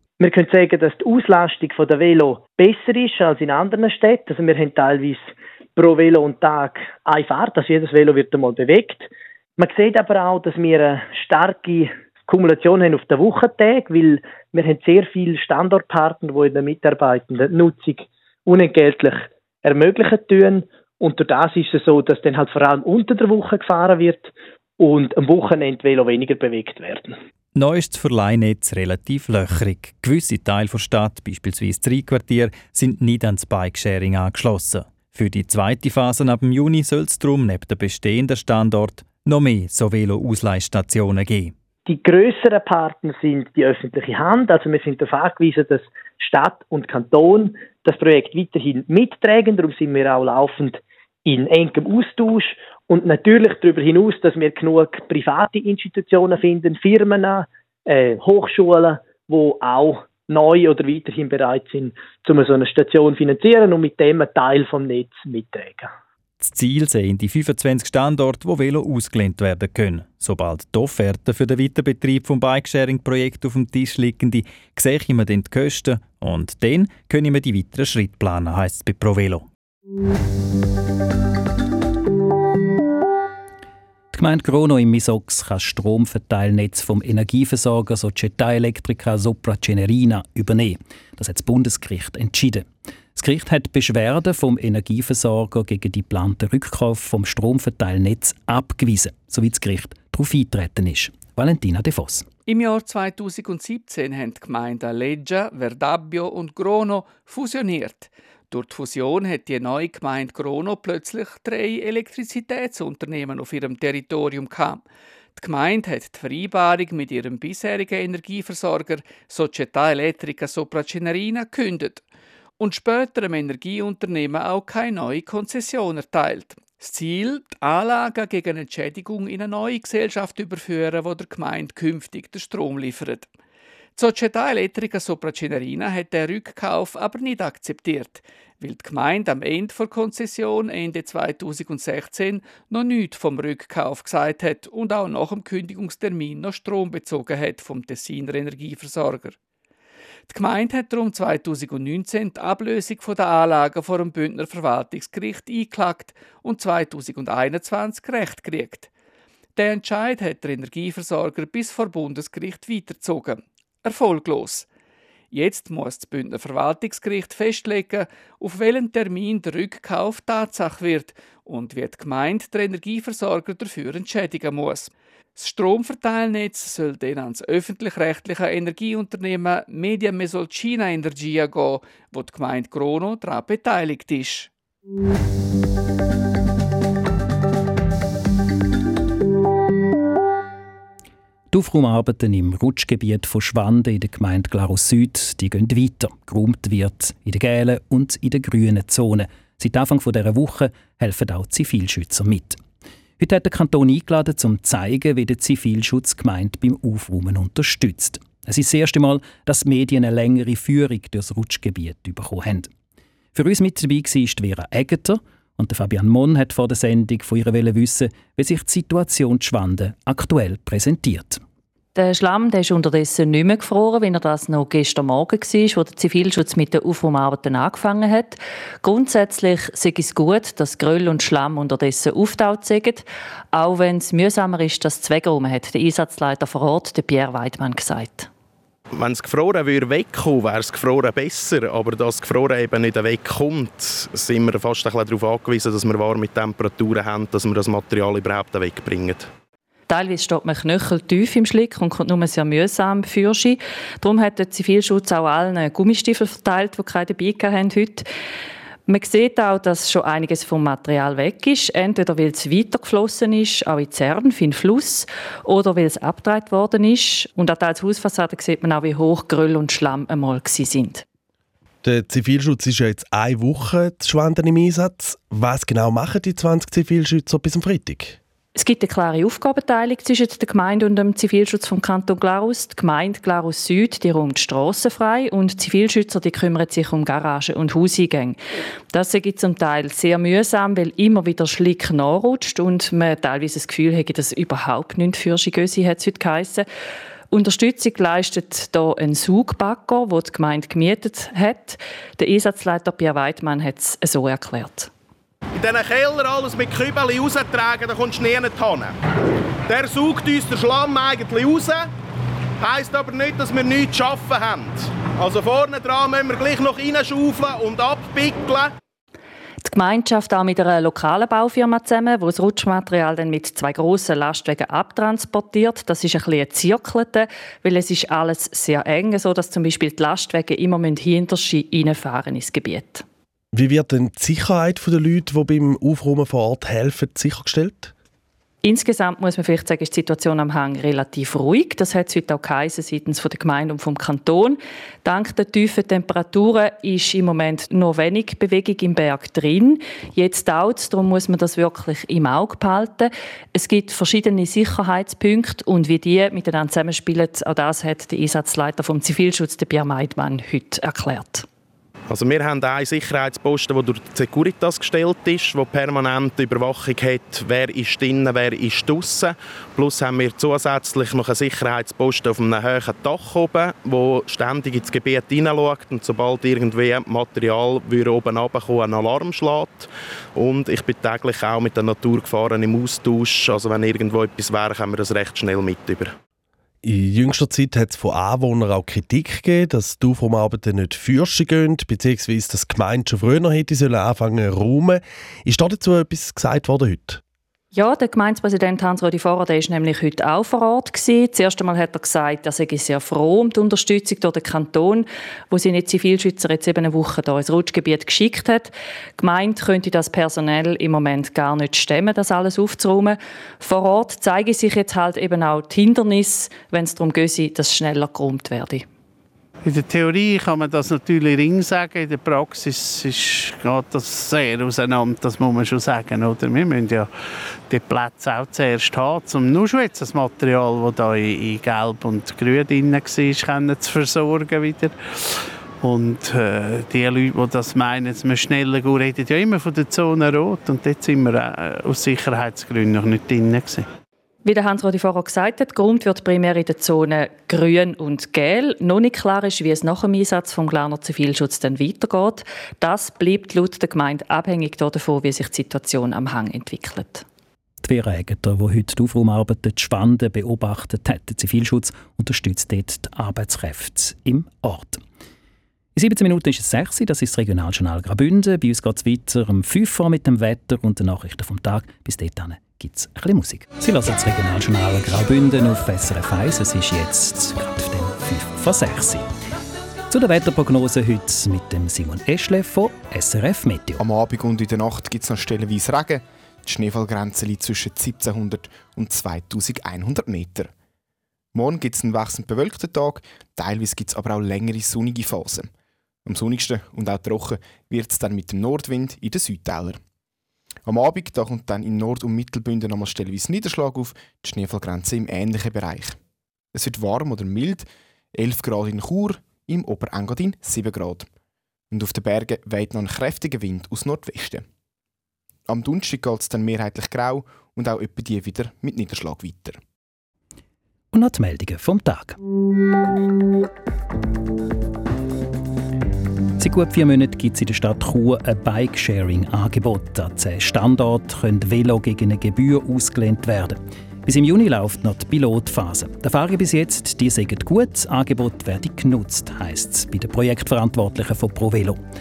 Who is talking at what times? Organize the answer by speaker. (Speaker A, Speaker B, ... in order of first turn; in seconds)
Speaker A: 0.2-27.2, 41.9-65.9
Speaker B: 27.6-41.5, 66.4-79.5
Speaker C: 84.1-102.2, 191.5-202.6, 203.2-212.7, 213.3-221.4, 457.8-465.0, 465.9-479.2, 480.1-484.1, 521.1-522.4, 526.6-542.0
Speaker D: 102.5-114.8, 115.4-122.0, 122.6-133.3, 134.0-149.4, 150.3-158.9, 159.6-164.7, 165.3-184.5
Speaker E: 221.9-238.3, 249.9-258.1, 258.9-271.0, 278.6-288.4, 288.9-296.6, 297.3-304.9, 319.6-333.0, 338.6-361.4, 397.7-418.8, 444.4-457.2
Speaker F: 239.0-249.2, 305.6-308.9, 309.7-311.8, 312.6-318.7, 362.1-386.1
Speaker G: 271.8-278.2, 333.5-337.9, 386.8-397.2
Speaker H: 419.6-427.1, 427.7-434.9, 435.8-443.9
Speaker I: 484.6-486.2, 487.5-488.5, 489.1-490.4, 491.8-492.9, 493.6-495.6, 496.4-499.8, 501.1-506.1, 506.8-507.8, 508.5-510.8